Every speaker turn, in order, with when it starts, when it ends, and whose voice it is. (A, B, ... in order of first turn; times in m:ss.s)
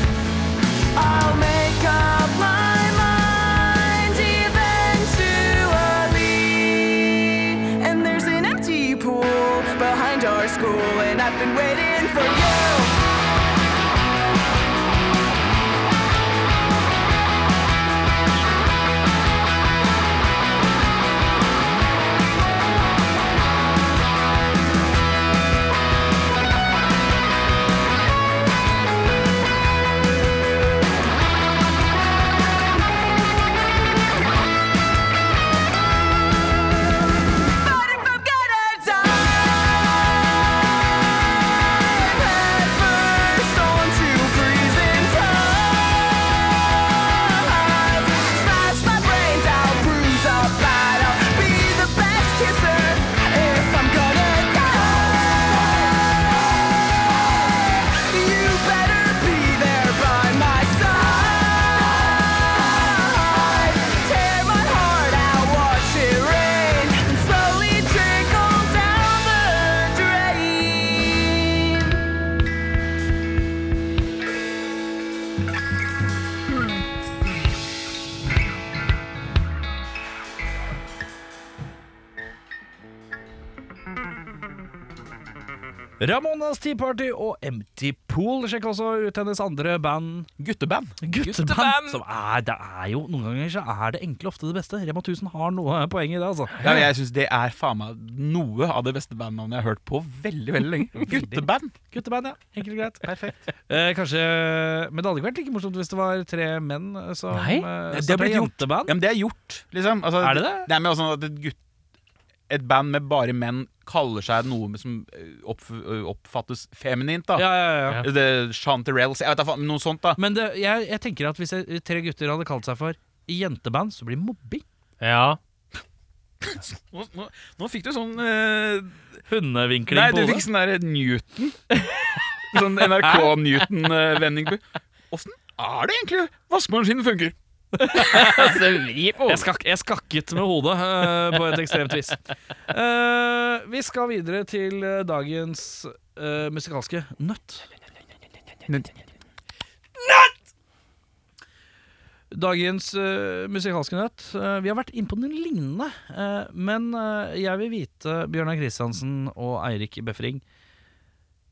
0:00.9-0:13.0 A
0:37.6-0:55.6 A
0:57.6-1:12.0 A
1:26.0-1:30.3 B
1:30.4-1:31.0 C
1:31.0-1:36.7 B
1:31.2-1:32.0 D
1:36.6-1:41.7 C
1:41.9-1:43.1 B
1:43.0-1:43.5 C
1:43.7-1:48.9 B
1:47.3-1:47.7 D
1:47.9-1:51.6 C
1:50.2-1:50.7 B
1:52.5-2:00.2 C
1:57.4-1:58.0 B
2:00.2-2:04.6 B
2:05.0-2:05.4 D
2:06.4-2:09.0 C
2:09.3-2:10.4 B
2:09.9-2:11.6 C
2:12.5-2:17.4 C
2:17.8-2:27.7 B
2:17.8-2:19.5 D
2:32.3-2:40.4 B